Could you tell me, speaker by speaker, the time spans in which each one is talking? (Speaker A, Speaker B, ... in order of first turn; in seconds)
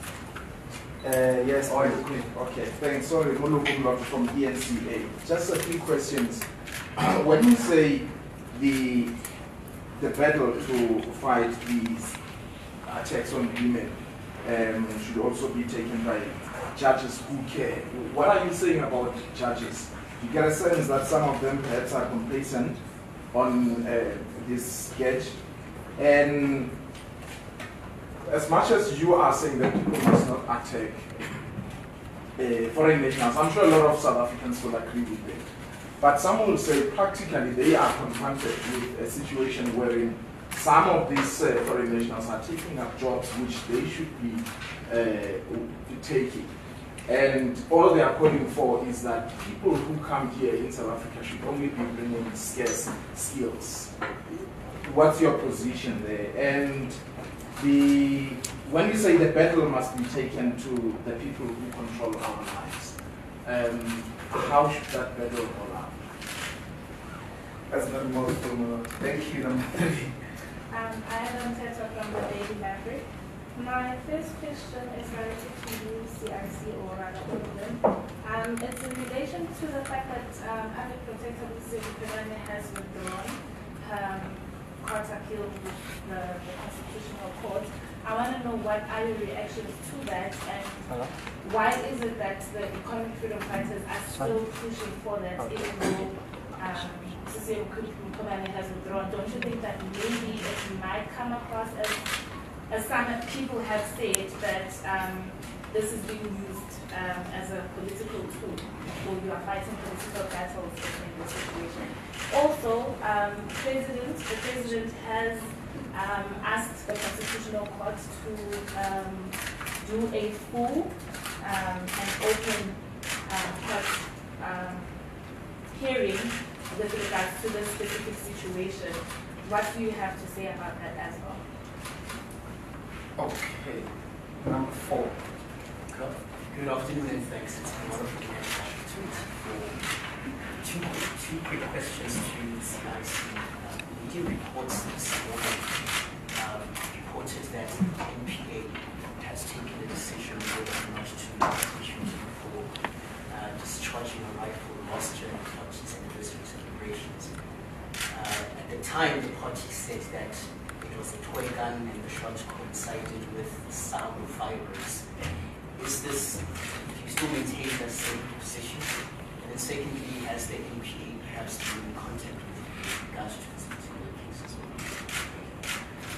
Speaker A: 1.0-9.2, 9.9-12.2, 12.8-22.8, 23.3-25.4, 25.9-26.8, 28.2-31.4, 32.3-46.5, 47.0-54.0, 54.8-57.0, 57.5-66.0
Speaker B: 1.6-2.2, 67.7-70.1, 133.2-135.2
Speaker C: 70.7-102.1, 102.7-125.0, 125.7-131.4
Speaker D: 135.9-175.9